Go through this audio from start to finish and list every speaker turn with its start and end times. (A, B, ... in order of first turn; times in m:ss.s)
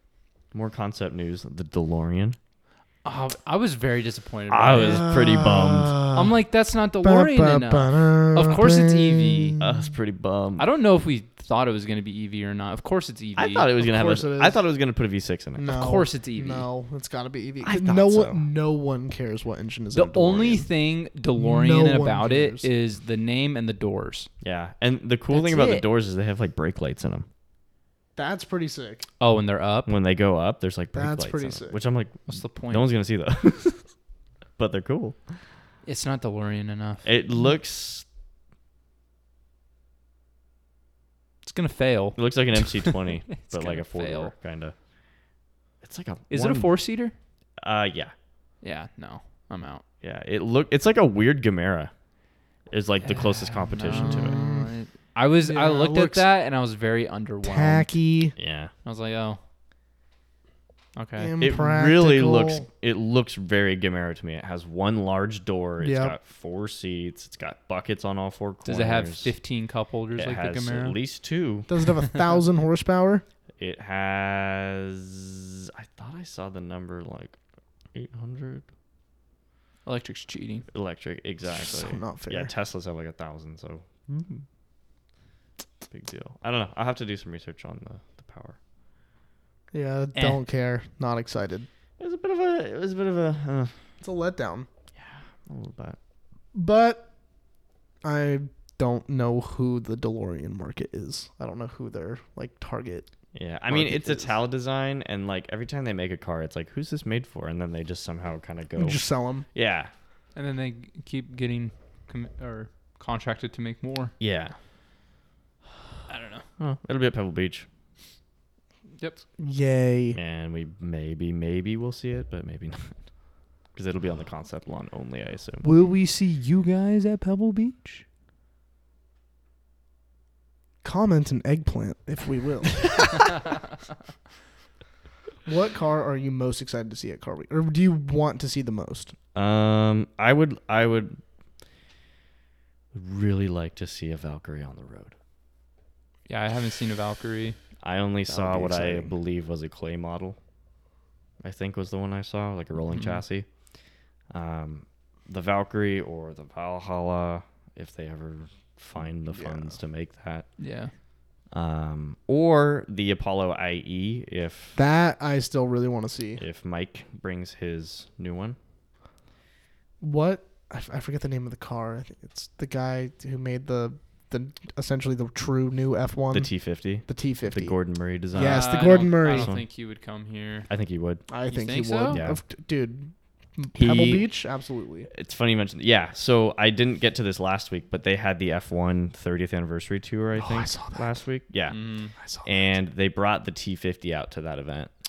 0:00.5-0:02.4 A
0:03.0-0:05.1 B
0:04.5-0:06.0 A
0:04.8-0:06.3 C
0:06.1-0:09.6 B
0:07.0-0:09.9 C
0:09.6-0:10.7 A
0:10.6-0:13.7 B
0:13.4-0:15.6 A
0:13.8-0:14.6 C
0:15.6-0:20.7 C
0:15.7-0:16.7 B
0:17.6-0:18.4 A
0:19.9-0:24.3 B
0:21.4-0:22.7 C
0:24.4-0:27.3 A
0:25.3-0:25.9 B
0:28.2-0:29.0 C
0:29.2-0:30.0 B
0:29.9-0:33.9 A
0:30.9-0:31.8 C
0:32.3-0:32.9 B
0:34.6-0:35.4 A
0:35.8-0:37.1 B
0:37.0-0:38.0 A
0:41.4-0:44.3 B
0:42.2-0:44.8 A
0:45.8-0:46.7 A
0:46.3-0:47.1 B
0:47.6-0:48.1 A
0:48.6-0:49.8 B
0:50.0-0:51.9 A
0:52.7-0:54.4 A
0:53.0-0:57.9 B
0:53.9-0:54.7 C
0:55.4-0:56.3 C
0:57.4-0:58.4 C
0:58.4-0:58.7 A
0:58.8-0:59.4 B
1:01.0-1:01.3 B
1:01.2-1:02.7 C
1:01.4-1:09.4 A
1:05.8-1:06.2 C
1:08.6-1:11.0 B
1:10.2-1:11.7 A
1:11.7-1:13.2 C
1:13.6-1:17.4 A
1:17.9-1:18.7 A
1:19.8-1:20.7 B
1:20.7-1:24.4 A
1:21.6-1:22.5 C
1:25.9-1:28.6 A
1:29.7-1:31.7 C
1:30.2-1:30.4 B
1:32.0-1:33.8 A
1:34.0-1:34.7 C
1:35.0-1:36.0 A
1:36.5-1:37.1 C
1:38.0-1:43.1 C
1:43.3-1:49.9 A
1:43.7-1:44.4 C
1:48.8-1:49.5 C
1:50.4-1:54.1 B
1:54.2-1:54.6 A
1:56.1-1:56.5 B
1:56.6-1:57.7 A
1:59.4-2:00.2 C
2:00.2-2:03.0 A
2:03.7-2:05.7 A
2:05.6-2:08.0 B
2:10.8-2:13.2 C
2:15.4-2:19.2 C
2:19.4-2:21.2 A
2:22.9-2:25.1 A
2:26.3-2:27.6 B
2:27.8-2:30.4 A
2:28.3-2:29.1 C
2:31.4-2:33.5 A
2:32.9-2:33.2 B
2:34.3-2:40.5 A
2:39.3-2:39.8 C
2:40.6-2:40.9 B
2:41.5-2:44.8 A
2:44.8-2:46.4 C
2:46.4-2:48.6 A
2:50.0-2:57.8 C
2:56.3-2:59.7 A
2:58.3-2:59.5 C
2:58.4-3:00.7 B
3:00.7-3:01.2 A
3:01.3-3:05.1 C
3:01.5-3:02.2 B
3:02.1-3:02.4 A
3:03.8-3:04.3 A
3:05.1-3:11.8 A
3:10.4-3:11.2 C
3:11.7-3:12.1 B
3:12.2-3:12.8 C
3:12.4-3:14.9 A